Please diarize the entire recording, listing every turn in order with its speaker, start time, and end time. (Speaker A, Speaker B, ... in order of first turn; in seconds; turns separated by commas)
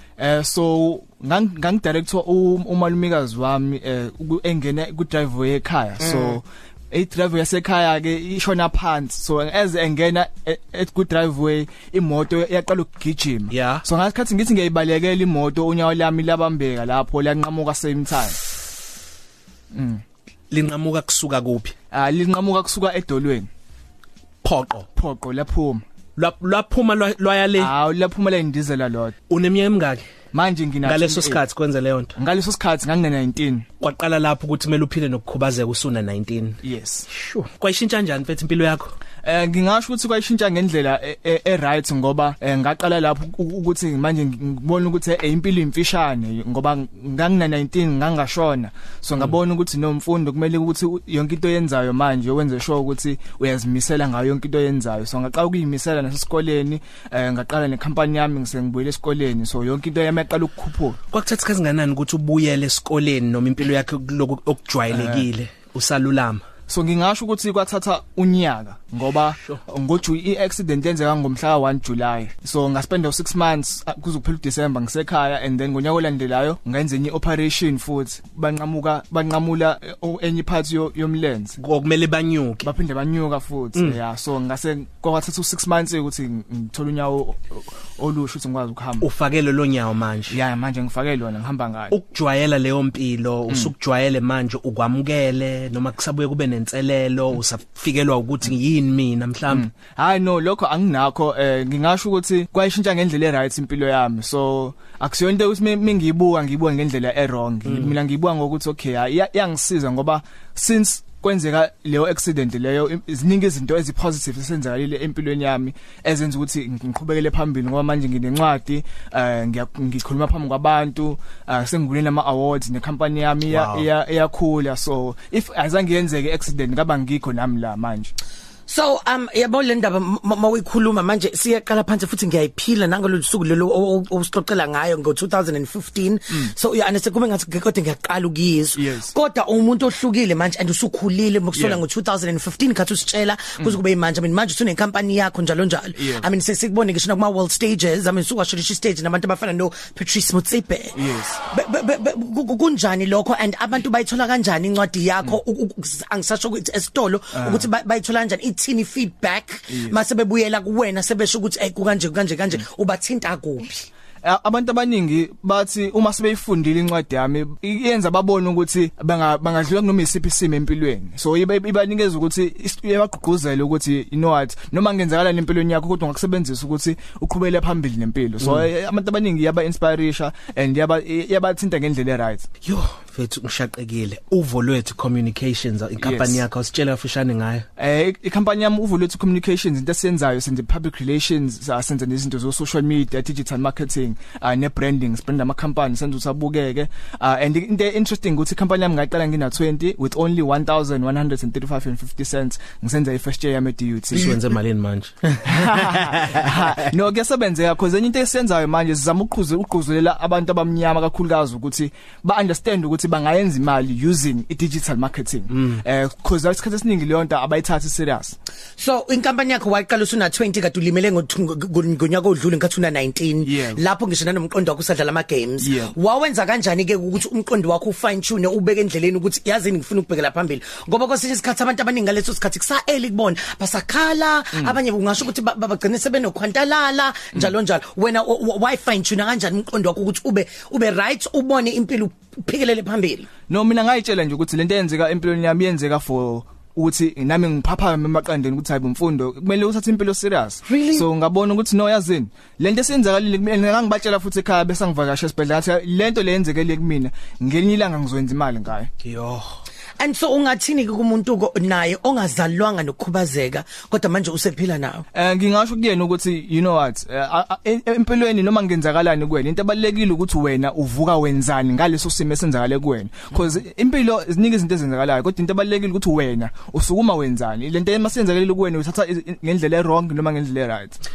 Speaker A: 0.2-18.4, Speaker B: 13.5-13.8, Speaker A: 19.7-20.0, Speaker B: 20.5-21.8, Speaker A: 21.9-23.5, Speaker B: 24.4-24.9, Speaker A: 25.0-25.8, Speaker B: 26.2-27.7, Speaker A: 27.6-29.2, Speaker B: 29.3-30.0, Speaker A: 30.3-31.4, Speaker B: 30.8-32.1, Speaker A: 32.2-33.7, Speaker B: 33.8-39.0, Speaker A: 36.6-37.1, Speaker A: 39.2-61.0, Speaker B: 61.1-66.4, Speaker A: 64.9-65.3, Speaker A: 66.7-81.6, Speaker B: 81.6-82.7, Speaker A: 82.6-89.1, Speaker B: 89.0-90.4, Speaker A: 90.3-92.0, Speaker B: 91.9-99.7, Speaker A: 99.5-128.1, Speaker B: 123.5-123.9, Speaker C: 128.7-163.9, Speaker A: 138.8-139.2, Speaker A: 141.5-141.8, Speaker A: 145.9-146.3, Speaker A: 150.9-151.4, Speaker A: 157.3-157.7, Speaker A: 159.7-160.0, Speaker A: 164.2-182.5, Speaker B: 182.6-187.7, Speaker A: 186.0-186.4, Speaker A: 187.8-204.4, Speaker B: 204.1-206.5, Speaker A: 205.4-218.4, Speaker C: 218.8-243.3, Speaker A: 223.4-223.8, Speaker A: 225.6-225.9, Speaker A: 243.5-258.9, Speaker C: 250.7-251.1, Speaker B: 259.0-259.6, Speaker C: 260.0-265.1, Speaker A: 265.1-281.0